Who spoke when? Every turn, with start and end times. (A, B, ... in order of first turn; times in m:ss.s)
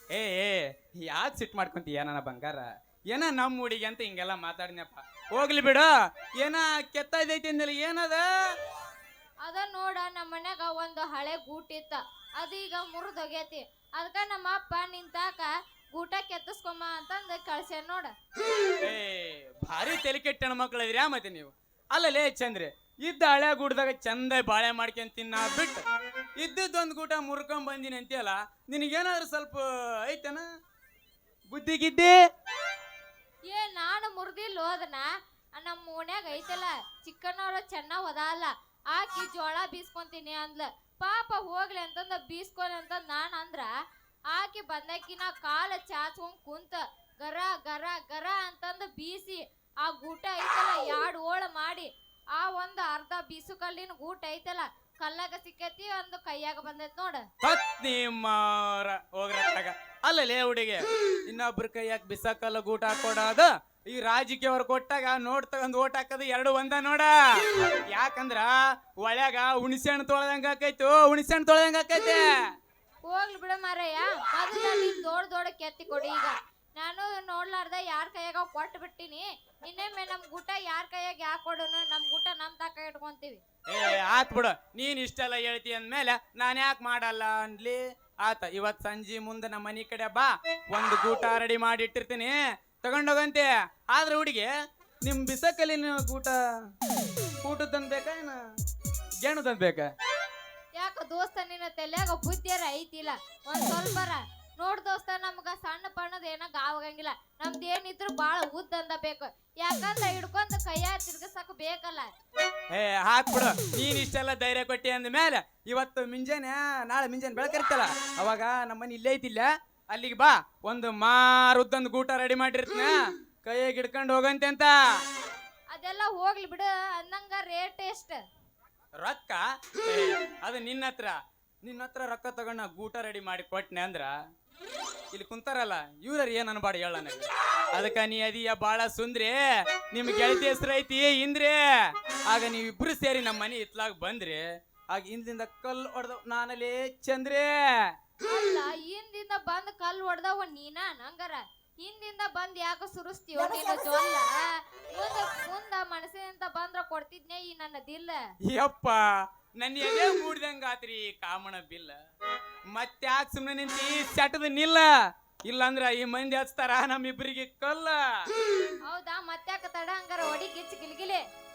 0:00.1-0:08.3 A
0:09.4-0:18.1 B
0:18.8-0:25.8 A
0:26.4-0:30.5 A
0:31.5-0:32.2 A
0:33.5-0:35.1 B
0:35.6-0:43.7 B
0:44.3-0:57.2 B
0:57.4-1:07.4 A
1:07.9-1:12.2 A
1:13.1-1:23.4 B
1:23.7-1:34.5 A
1:35.0-1:36.4 A
1:37.4-1:38.4 A
1:39.2-1:39.9 A
1:40.8-1:52.1 B
1:52.7-2:04.8 A
2:05.7-2:08.2 B
2:09.0-2:14.2 A
2:15.1-2:19.4 A
2:19.9-2:21.6 A
2:22.3-2:27.9 A
2:28.3-2:34.3 B
2:34.9-2:38.2 B
2:38.5-2:39.0 A
2:39.6-2:42.0 A
2:42.7-2:44.9 A
2:45.5-2:48.2 A
2:48.9-2:51.2 B